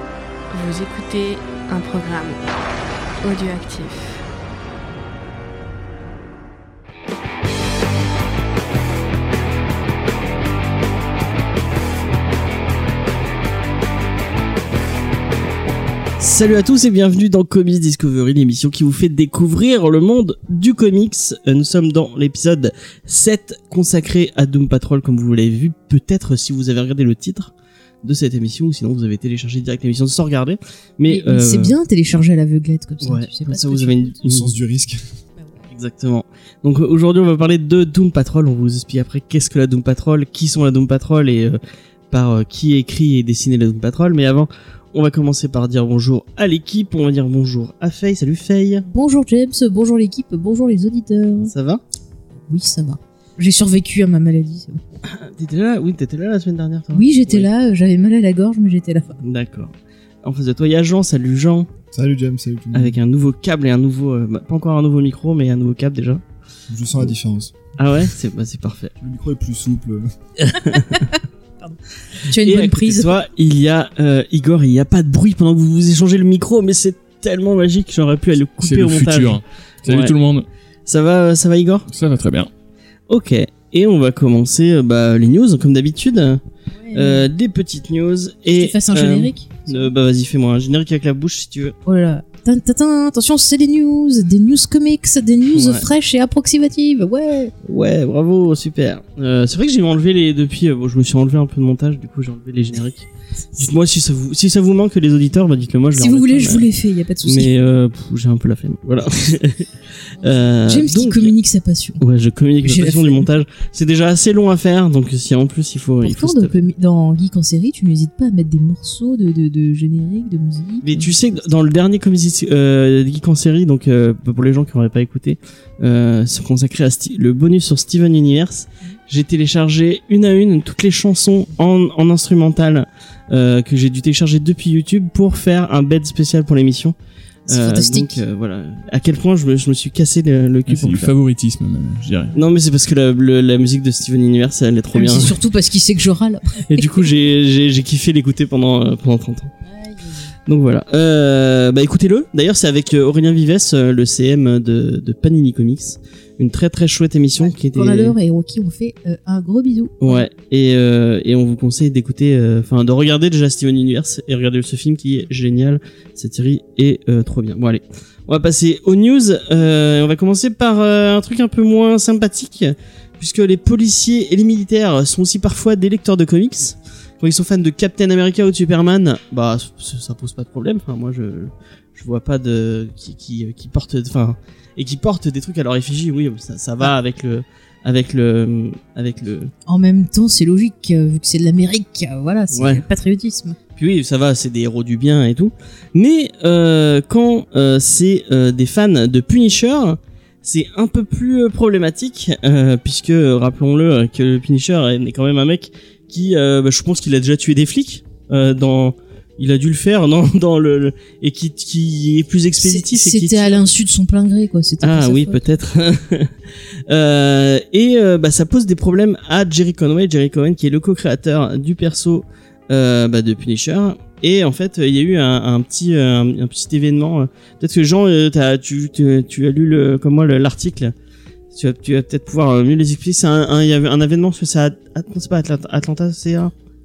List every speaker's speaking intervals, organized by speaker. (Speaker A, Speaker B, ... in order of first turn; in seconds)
Speaker A: 0.5-2.5, 3.2-4.2
Speaker B: 16.2-27.5, 28.0-31.7, 33.0-34.5, 35.7-41.6, 42.1-48.9, 51.4-51.8, 55.1-57.5, 59.2-61.7, 62.7-66.2, 67.8-68.9, 70.4-71.1, 72.3-80.2, 80.9-81.9, 83.1-86.4, 86.9-91.8, 95.5-95.9, 97.6-106.7, 107.2-111.3, 112.0-116.5, 120.8-136.9, 137.5-141.1, 142.3-145.4, 146.7-149.5, 150.5-158.2, 160.0-189.5, 192.5-192.8, 193.8-213.7, 214.8-216.3, 216.9-230.9, 231.5-236.5
Speaker C: 31.1-34.1, 48.9-51.5, 52.5-55.0, 56.9-59.2, 70.7-73.2, 86.8-87.3, 88.5-89.9, 91.9-97.5, 106.0-107.6, 110.2-112.0, 112.6-113.3, 116.0-121.5, 137.5-138.2, 144.9-147.1, 149.7-150.3, 157.4-160.3, 189.7-193.6, 212.6-215.5
Speaker D: 34.2-35.0, 61.9-63.0, 66.7-67.5, 69.0-70.1
Speaker E: 78.6-80.5, 81.9-82.5, 140.7-142.4